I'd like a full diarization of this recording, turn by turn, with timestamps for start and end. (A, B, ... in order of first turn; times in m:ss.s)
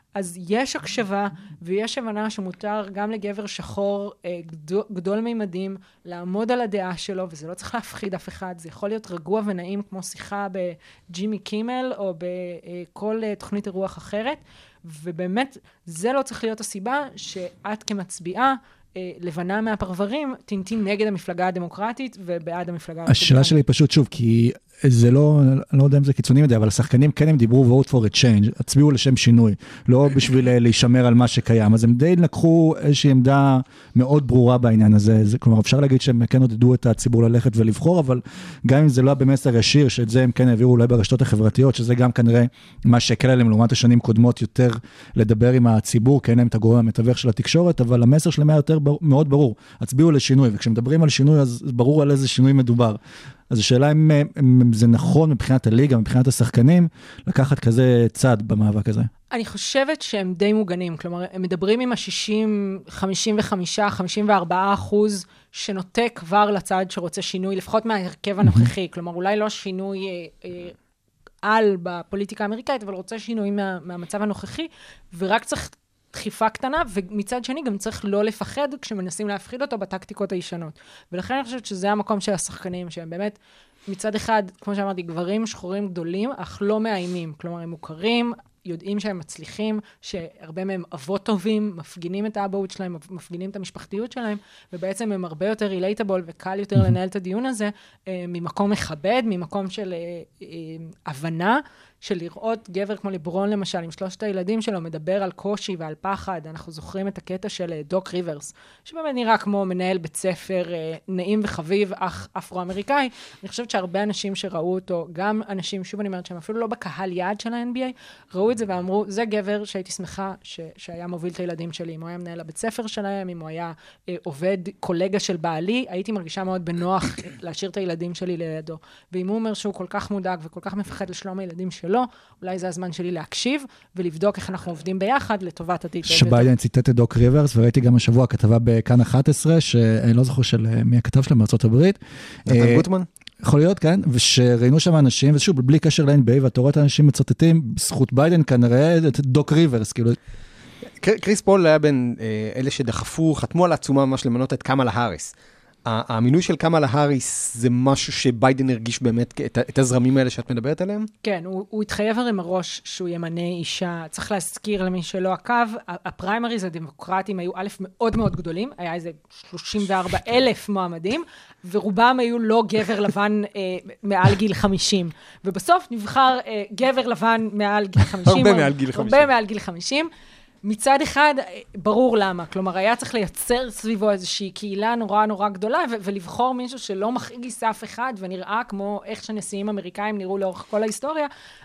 0:00.1-0:23.6 A
0:23.1-0:53.0 B
0:53.5-0:59.1 B
0:59.3-1:10.8 A
1:11.4-1:23.4 A
1:23.9-2:16.5 A
2:16.1-2:22.8 B
2:22.5-2:23.1 C
2:23.4-2:30.2 B
2:31.0-2:35.3 C
2:35.8-2:41.1 C
2:41.2-3:00.1 A
2:58.2-2:59.3 C
3:00.6-3:11.3 A